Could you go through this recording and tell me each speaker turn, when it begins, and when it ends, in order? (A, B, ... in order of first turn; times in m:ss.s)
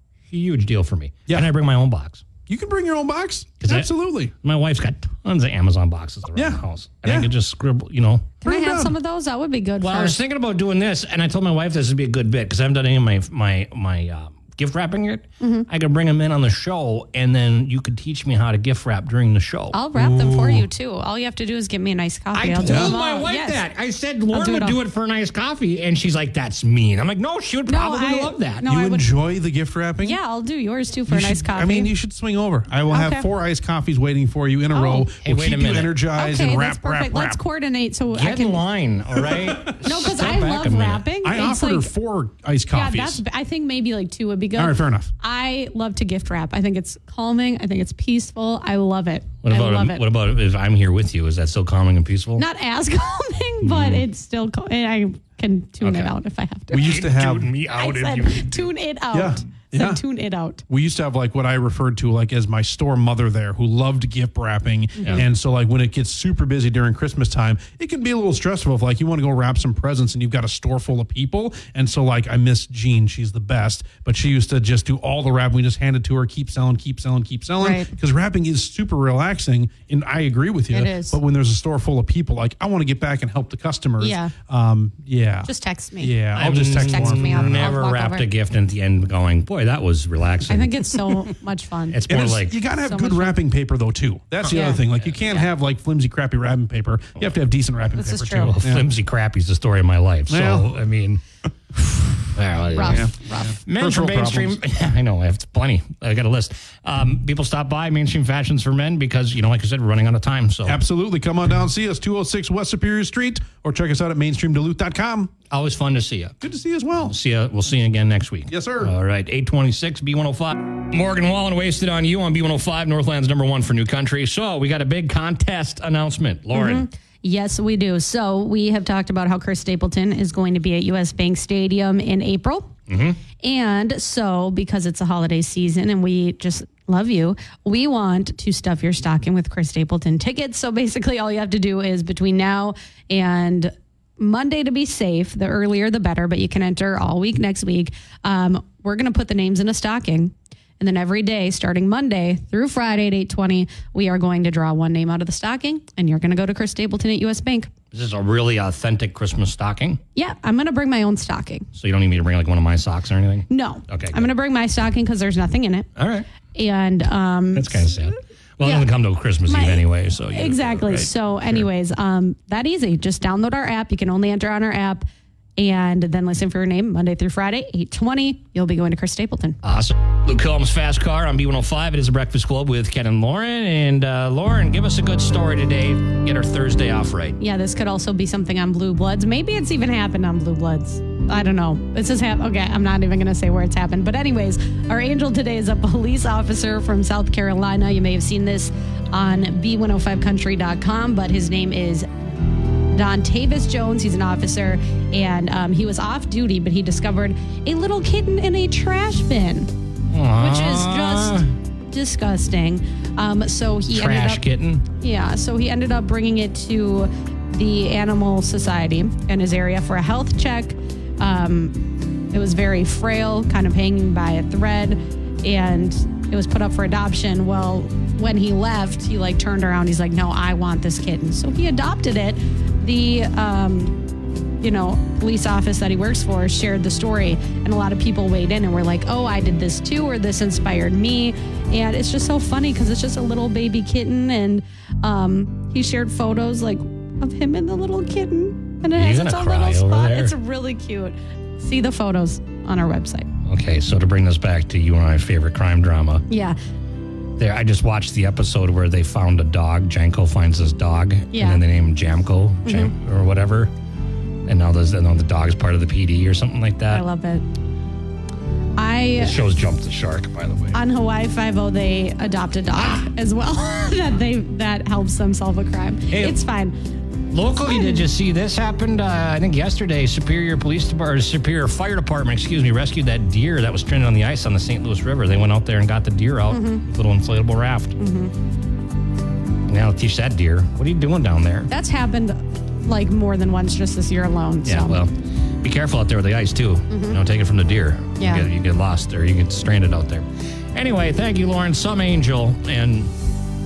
0:00.3-0:02.2 A
0:02.5-0:04.3 B
0:03.6-0:03.9 A
0:04.4-0:08.4 A
0:06.3-0:07.3 B
0:08.4-0:10.2 C
0:08.4-0:08.9 B
0:09.8-0:19.8 A
0:15.4-0:15.7 C
0:19.7-0:23.6 C
0:20.0-0:20.6 B
0:22.3-0:28.7 A
0:22.6-0:22.9 B
0:24.3-0:24.8 C
0:27.7-0:29.2 C
0:28.6-0:30.2 B
0:30.0-0:31.9 C
0:31.1-0:37.4 B
0:32.9-0:33.3 C
0:34.7-0:35.1 C
0:35.2-0:36.0 A
0:36.1-0:38.6 C
0:38.1-0:41.0 A
0:39.2-0:39.8 B
0:39.8-0:41.9 C
0:41.2-0:43.2 B
0:42.7-0:50.0 C
0:44.6-0:45.1 B
0:49.4-0:52.4 A
0:52.4-0:57.0 C
0:53.6-0:54.0 A
0:55.8-0:56.1 A
0:56.7-0:57.5 B
0:56.7-0:58.7 A
0:57.7-1:00.6 C
0:59.1-1:00.0 B
1:00.7-1:27.7 B
1:05.0-1:05.2 C
1:17.6-1:17.9 C
1:20.7-1:21.2 C
1:24.0-1:24.3 C
1:25.4-1:28.3 C
1:26.3-1:31.1 A
1:30.5-1:32.0 C
1:31.9-1:32.6 A
1:32.1-1:38.9 B
1:32.6-1:33.4 C
1:34.4-1:35.5 C
1:38.0-1:38.6 C
1:38.3-1:41.2 A
1:40.3-1:40.7 B
1:42.3-1:43.1 A
1:42.7-1:43.6 C
1:42.9-1:44.6 B
1:43.6-1:50.8 A
1:50.6-1:55.3 B
1:55.5-1:56.4 A
1:56.4-1:57.1 B
1:57.0-2:06.9 A
1:58.5-1:58.9 B
2:06.5-2:12.7 C
2:12.9-2:13.2 A
2:13.4-2:37.7 C
2:37.9-2:40.0 A
2:40.2-2:41.7 C
2:41.7-2:44.3 A
2:43.5-2:45.9 C
2:46.0-2:46.3 A
2:46.5-2:48.1 C
2:47.5-2:51.6 A
2:48.6-2:48.9 C
2:49.5-2:55.0 C
2:55.6-2:59.6 C
2:59.6-3:07.4 A
3:07.4-3:22.0 C
3:22.9-3:29.7 C
3:30.1-3:31.5 A
3:30.4-3:34.4 C
3:33.9-3:34.8 A
3:35.0-3:41.8 C
3:42.3-3:54.0 C
3:54.6-4:13.3 C
4:08.9-4:10.3 A
4:13.4-4:16.2 A
4:16.3-4:16.6 C
4:17.4-4:23.7 A
4:21.3-4:21.6 C
4:22.6-4:22.9 C
4:24.4-4:27.0 A
4:26.9-4:27.4 C
4:28.8-4:29.4 C
4:29.2-4:30.8 A
4:30.7-4:36.7 C
4:32.8-4:33.1 A
4:36.1-4:36.4 A
4:37.3-4:48.0 A
4:37.7-4:38.0 C
4:46.5-4:46.8 C
4:48.0-4:48.3 C
4:49.7-4:51.7 A
4:51.7-4:55.0 C
4:54.6-5:03.1 A
4:56.9-4:57.2 C
4:58.2-4:58.5 C